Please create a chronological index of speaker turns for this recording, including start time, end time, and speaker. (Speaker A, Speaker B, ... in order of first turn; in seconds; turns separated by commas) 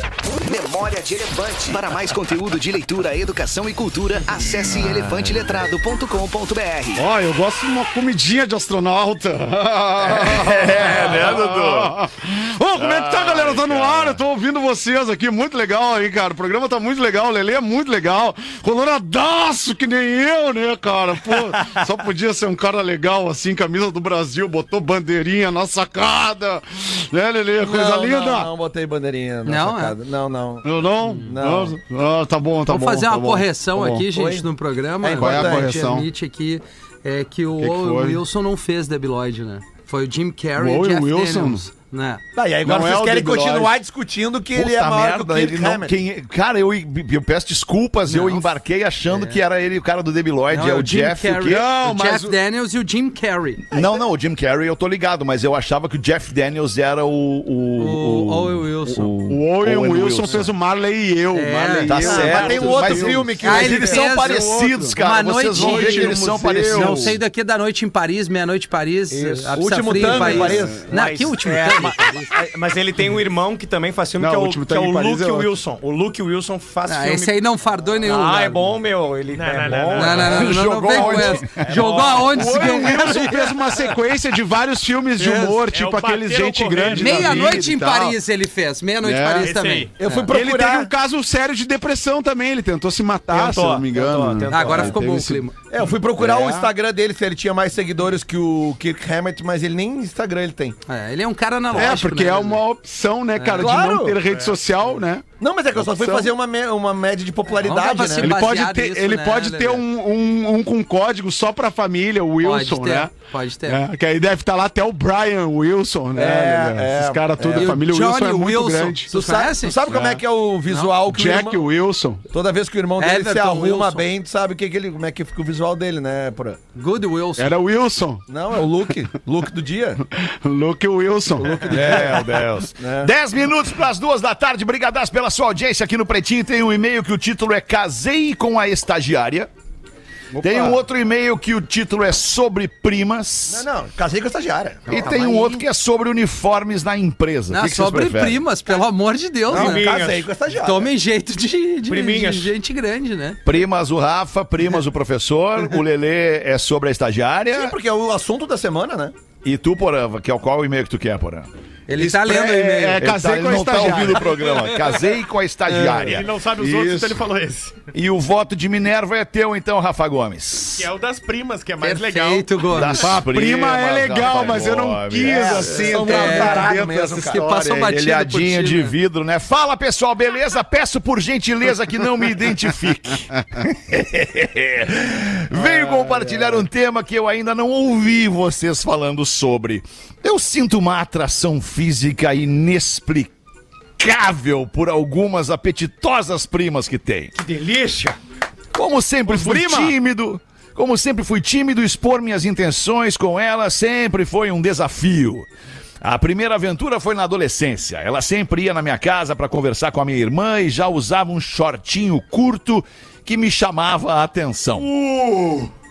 Speaker A: 0.3-7.0, Speaker B: 7.0-28.5, Speaker C: 10.0-12.0, Speaker C: 12.7-14.2, Speaker D: 27.6-31.8, Speaker E: 29.4-29.9, Speaker B: 30.6-34.1, Speaker E: 32.7-42.2, Speaker D: 34.1-34.5, Speaker D: 35.0-35.7, Speaker B: 35.1-36.1, Speaker B: 37.6-38.2, Speaker B: 40.5-41.6, Speaker D: 42.3-45.9, Speaker B: 42.6-43.8, Speaker C: 44.5-51.7, Speaker E: 48.1-48.5, Speaker E: 49.1-49.4, Speaker E: 50.5-53.6, Speaker B: 51.5-52.4, Speaker C: 53.7-60.5, Speaker E: 57.8-59.1, Speaker B: 59.2-64.9, Speaker E: 61.3-62.2, Speaker C: 61.9-67.2, Speaker D: 62.0-64.0, Speaker E: 63.4-72.3, Speaker B: 65.5-67.2, Speaker D: 69.5-70.9, Speaker B: 69.9-70.8, Speaker F: 70.9-77.4, Speaker B: 74.2-75.5, Speaker E: 76.9-78.6, Speaker F: 78.0-80.5, Speaker G: 79.3-80.4, Speaker E: 80.0-83.5, Speaker B: 80.2-88.2, Speaker C: 80.3-81.6, Speaker F: 81.6-82.3, Speaker G: 85.2-87.5, Speaker E: 86.9-90.3, Speaker B: 89.0-89.5, Speaker G: 89.4-89.9, Speaker D: 90.0-90.9, Speaker B: 90.3-96.7, Speaker F: 93.3-94.9, Speaker E: 94.5-95.5, Speaker D: 95.7-100.8, Speaker E: 100.9-102.6, Speaker B: 101.7-106.3, Speaker E: 103.3-103.7, Speaker D: 103.5-104.2, Speaker G: 104.3-104.6, Speaker D: 105.4-108.4, Speaker E: 107.6-109.8, Speaker B: 108.2-113.1, Speaker E: 112.4-113.8, Speaker B: 113.7-119.1, Speaker D: 116.1-117.8, Speaker E: 117.5-119.8, Speaker D: 119.1-121.7, Speaker B: 119.9-120.2, Speaker E: 120.7-120.9, Speaker B: 121.0-122.2, Speaker D: 122.3-126.6, Speaker E: 123.0-124.0, Speaker E: 126.8-127.5, Speaker B: 127.4-128.2, Speaker D: 128.3-130.0, Speaker B: 130.2-131.8, Speaker D: 131.3-133.1, Speaker C: 131.7-139.5, Speaker B: 140.3-140.8, Speaker C: 140.4-143.7, Speaker D: 143.5-145.1, Speaker C: 144.9-148.4, Speaker E: 147.5-149.8, Speaker D: 149.5-150.9, Speaker F: 149.5-150.3, Speaker E: 150.6-153.4, Speaker F: 151.9-152.5, Speaker C: 153.4-157.7, Speaker D: 157.5-159.1, Speaker C: 159.4-161.5, Speaker E: 161.9-163.0, Speaker B: 162.0-164.2, Speaker C: 163.0-166.6, Speaker B: 165.7-166.0, Speaker G: 165.8-167.9, Speaker B: 166.7-166.9, Speaker C: 167.9-170.9, Speaker G: 170.7-172.6, Speaker E: 171.8-173.2, Speaker C: 172.7-175.9, Speaker B: 172.9-177.5, Speaker D: 175.2-177.5, Speaker E: 176.0-176.7, Speaker E: 177.3-178.9, Speaker C: 177.5-193.3, Speaker C: 194.0-197.3, Speaker F: 197.3-198.2, Speaker C: 198.7-205.5, Speaker B: 199.3-199.9, Speaker C: 206.0-214.9, Speaker D: 214.9-215.7